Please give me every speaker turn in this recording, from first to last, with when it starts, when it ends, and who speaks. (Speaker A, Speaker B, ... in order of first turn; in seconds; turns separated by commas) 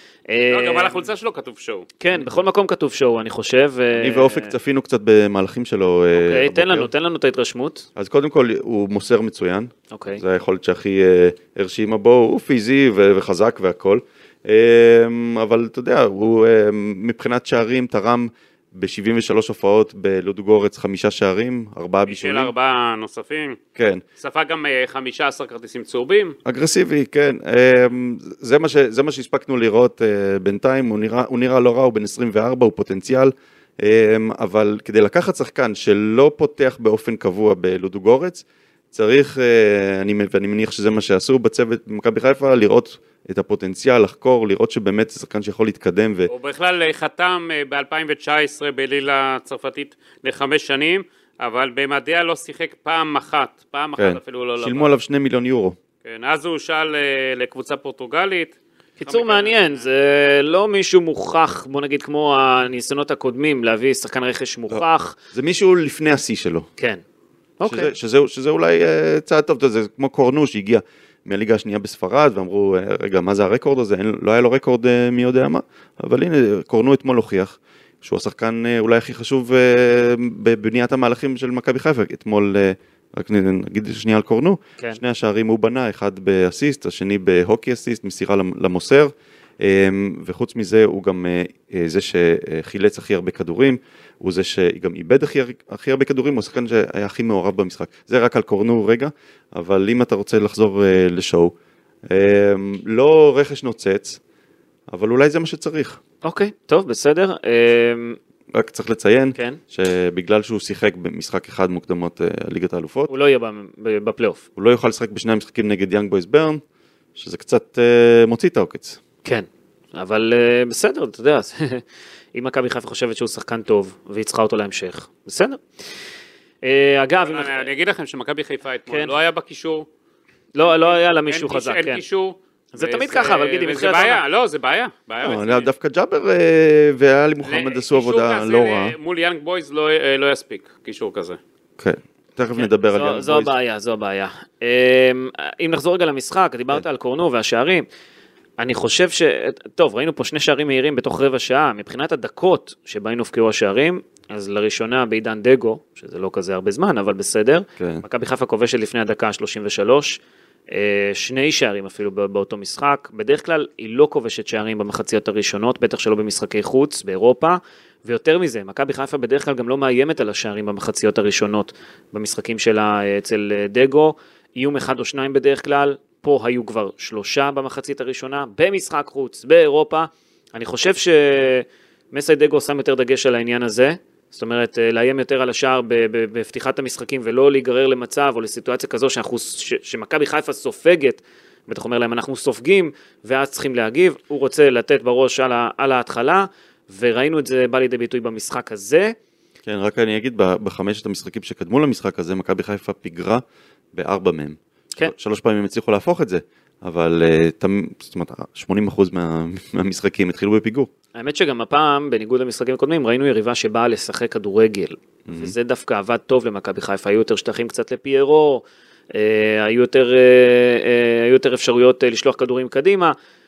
Speaker A: 0.3-1.0, Speaker B: 0.5-1.9, Speaker A: 2.0-4.5, Speaker C: 3.9-6.9, Speaker A: 6.1-7.8, Speaker C: 8.0-22.5, Speaker A: 9.9-10.2, Speaker B: 22.1-23.6, Speaker C: 23.8-24.0, Speaker B: 24.2-26.4, Speaker C: 26.4-46.3, Speaker B: 46.3-54.9, Speaker C: 54.0-55.8, Speaker B: 56.0-59.8, Speaker A: 59.0-65.2, Speaker C: 64.7-66.7, Speaker A: 67.6-67.9, Speaker C: 67.6-101.5, Speaker C: 102.1-104.2, Speaker C: 104.9-106.0, Speaker A: 106.2-108.2, Speaker C: 108.5-113.1, Speaker A: 109.3-109.6, Speaker A: 113.1-114.4, Speaker C: 114.5-116.6, Speaker C: 117.2-119.0, Speaker A: 119.2-121.8, Speaker A: 122.3-125.6, Speaker A: 126.6-127.7, Speaker B: 127.2-129.8, Speaker A: 128.9-129.1, Speaker A: 130.5-132.0, Speaker B: 130.6-135.7, Speaker A: 132.7-134.2, Speaker C: 135.2-138.9, Speaker B: 137.4-141.4, Speaker C: 141.8-143.5, Speaker A: 142.6-147.8, Speaker A: 148.6-160.2, Speaker C: 157.8-158.0, Speaker A: 160.7-199.1, Speaker C: 199.6-203.4, Speaker C: 203.9-210.9, Speaker A: 211.1-223.1, Speaker C: 215.2-215.5